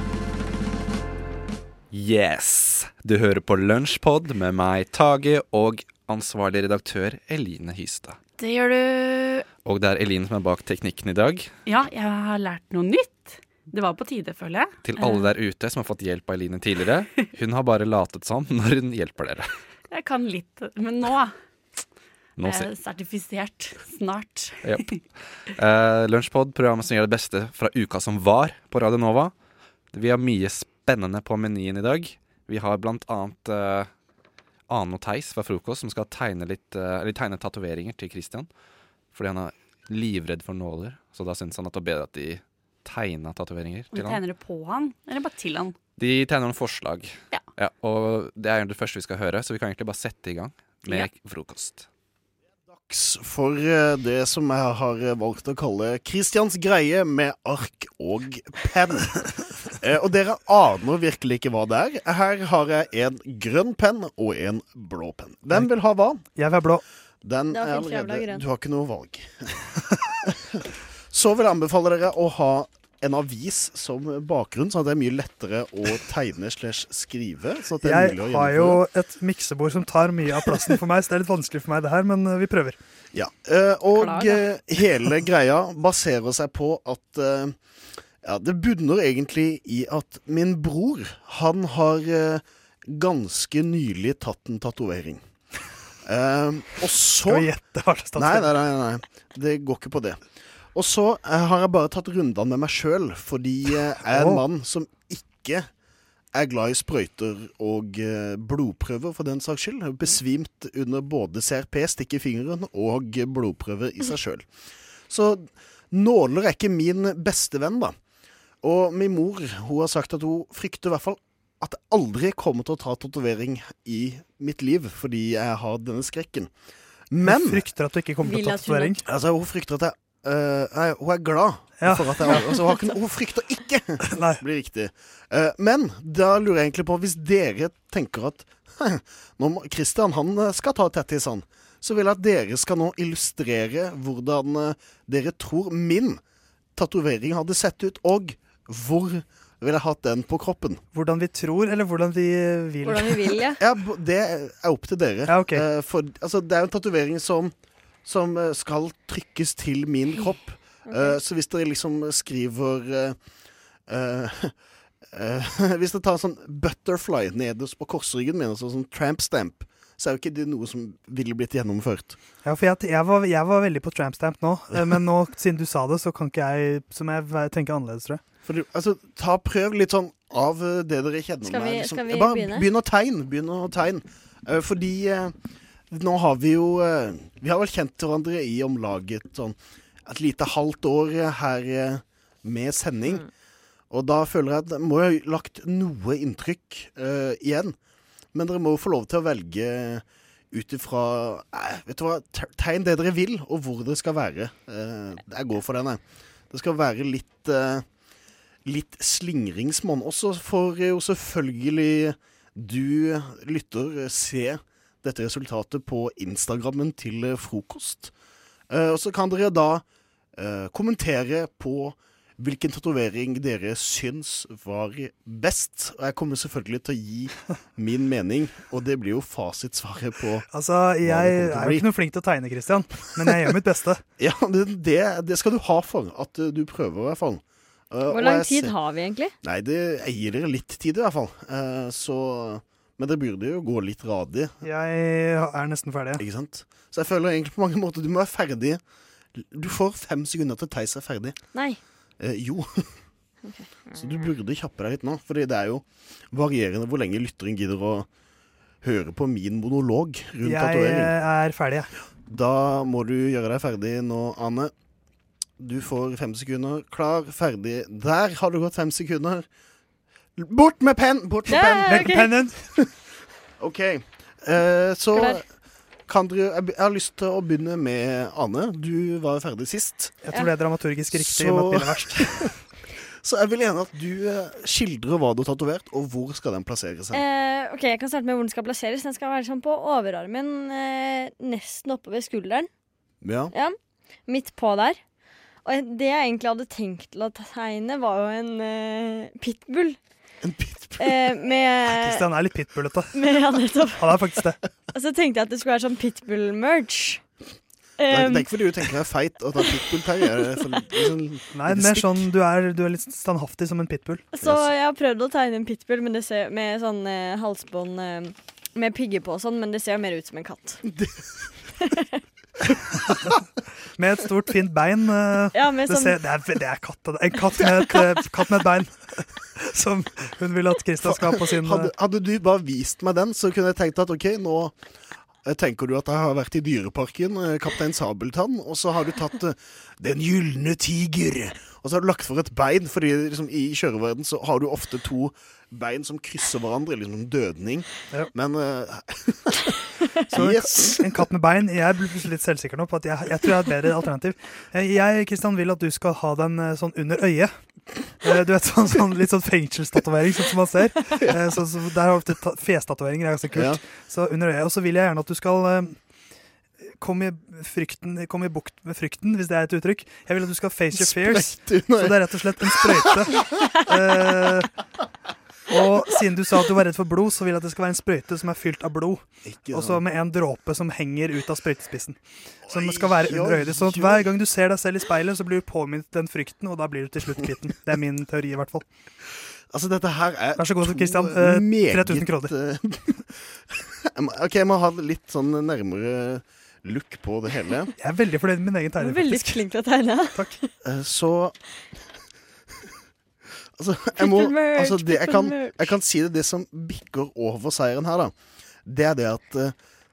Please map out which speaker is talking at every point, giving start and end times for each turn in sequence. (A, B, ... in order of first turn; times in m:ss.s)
0:01.9-0:08.2 A
0:08.4-0:09.4 B
0:09.6-0:11.5 A
0:11.6-0:15.3 B
0:14.8-0:19.5 A
0:19.9-0:21.3 B
0:22.4-0:22.7 A
0:22.4-0:25.0 B
0:24.6-0:29.3 A
0:29.9-0:33.9 A
0:34.7-0:38.5 A
0:39.1-0:44.2 A
0:43.9-0:45.8 B
0:46.0-0:51.9 A
0:52.7-1:06.2 C
1:05.5-1:06.8 D
1:07.2-1:09.7 C
1:07.5-1:08.4 E
1:11.1-1:18.8 C
1:17.8-1:22.8 D
1:23.1-1:35.3 C
1:36.0-1:45.7 C
1:37.1-1:38.6 D
1:44.0-1:44.4 D
1:46.3-1:58.0 C
1:58.6-2:06.5 C
2:07.1-2:08.0 C
2:07.2-2:09.0 D
2:08.2-2:08.9 E
2:09.0-2:26.2 C
2:11.8-2:12.5 D
2:14.0-2:14.4 D
2:26.7-2:30.8 C
2:30.9-2:33.4 D
2:32.8-2:33.6 E
2:33.6-2:52.2 C
2:35.3-2:35.6 D
2:40.8-2:41.2 E
2:52.4-2:58.2 D
2:58.4-3:05.3 C
3:01.4-3:02.7 E
3:05.9-3:13.3 C
3:13.9-3:17.8 C
3:18.3-3:27.9 C
3:28.6-3:38.1 C
3:38.7-3:39.8 C
3:40.3-3:52.2 C
3:50.5-3:54.0 D
3:54.2-3:58.8 C
3:58.1-3:59.3 E
3:59.4-4:04.6 C
4:04.6-4:06.2 D
4:06.2-4:11.4 C
4:11.5-4:11.8 E
4:12.2-4:13.1 C
4:13.4-4:14.2 E
4:13.9-4:18.1 C
4:18.8-4:24.7 C
4:20.4-4:21.9 D
4:25.6-4:29.5 C
4:30.4-4:33.0 C
4:31.4-4:32.3 E
4:31.8-4:32.7 D
4:33.6-4:40.2 C
4:35.1-4:35.4 E
4:40.2-4:42.6 D
4:41.1-4:42.6 C
4:43.2-4:47.2 C
4:47.1-4:52.7 E
4:53.2-4:53.5 C
4:53.5-4:55.0 E
4:55.6-5:00.2 E
5:00.4-5:01.3 C
5:01.0-5:02.2 E
5:02.0-5:03.2 D
5:03.1-5:04.3 E
5:04.0-5:04.6 D
5:04.9-5:07.3 E
5:08.0-5:08.5 E
5:08.1-5:12.3 C
5:11.5-5:14.3 D
5:14.3-5:20.8 E
5:14.4-5:14.7 C
5:20.8-5:21.6 C
5:24.0-5:31.9 D
5:25.5-5:26.2 E
5:31.0-5:49.6 C
5:50.3-5:51.3 C
5:50.3-6:14.8 D
6:03.5-6:03.9 C
6:10.9-6:13.8 C
6:15.7-6:28.9 D
6:19.4-6:20.1 C
6:22.6-6:24.3 C
6:29.7-6:37.9 C
6:30.6-6:32.6 D
6:38.0-6:40.6 D
6:39.0-6:40.7 E
6:40.8-6:41.6 C
6:43.8-6:49.8 C
6:44.2-6:46.0 E